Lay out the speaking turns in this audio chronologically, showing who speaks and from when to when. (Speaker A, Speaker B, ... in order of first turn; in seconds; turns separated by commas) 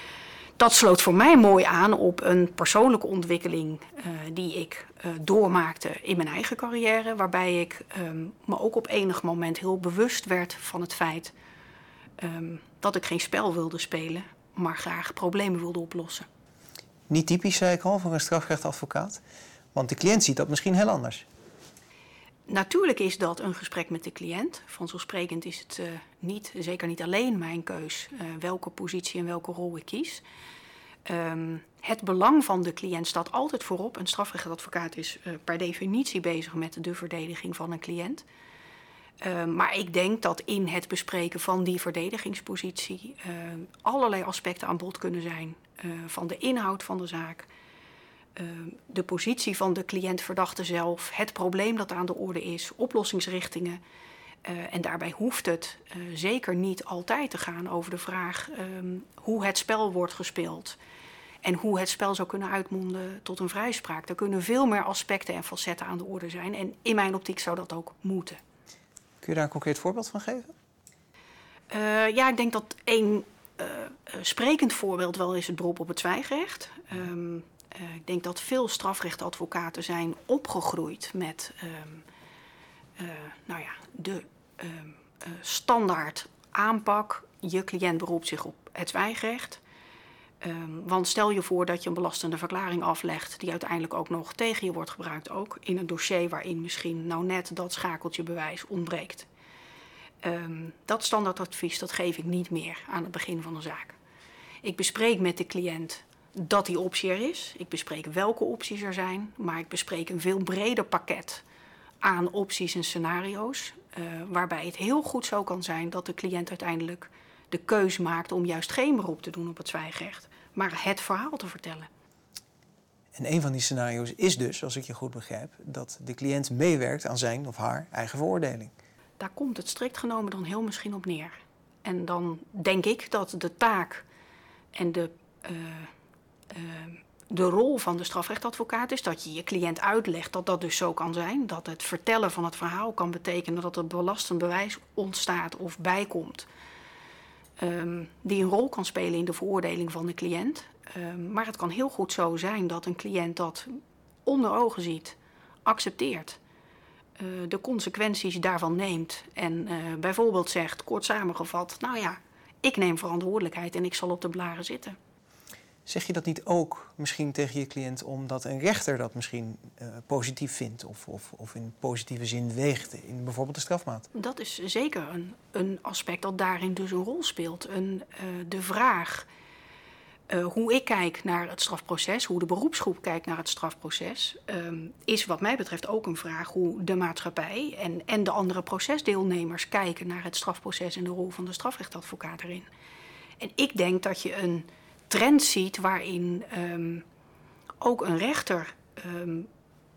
Speaker A: 0.6-11.3, Speaker A: 12.2-16.3, Speaker B: 17.1-19.2, Speaker B: 19.7-21.2, Speaker A: 22.5-30.2, Speaker A: 31.1-38.2, Speaker A: 39.2-47.5, Speaker A: 48.4-53.8, Speaker A: 54.4-60.8, Speaker A: 61.4-68.4, Speaker B: 69.2-70.5, Speaker A: 71.7-82.0, Speaker A: 83.0-89.6, Speaker A: 90.4-99.3, Speaker A: 100.2-104.0, Speaker A: 104.6-111.4, Speaker A: 112.0-121.9, Speaker B: 123.1-128.7, Speaker A: 129.2-134.1, Speaker A: 134.7-135.9, Speaker A: 136.5-146.5, Speaker A: 147.6-156.4, Speaker A: 157.2-164.9, Speaker B: 165.8-174.1, Speaker A: 174.1-179.3, Speaker A: 180.3-192.7, Speaker A: 193.4-197.0, Speaker A: 197.8-199.5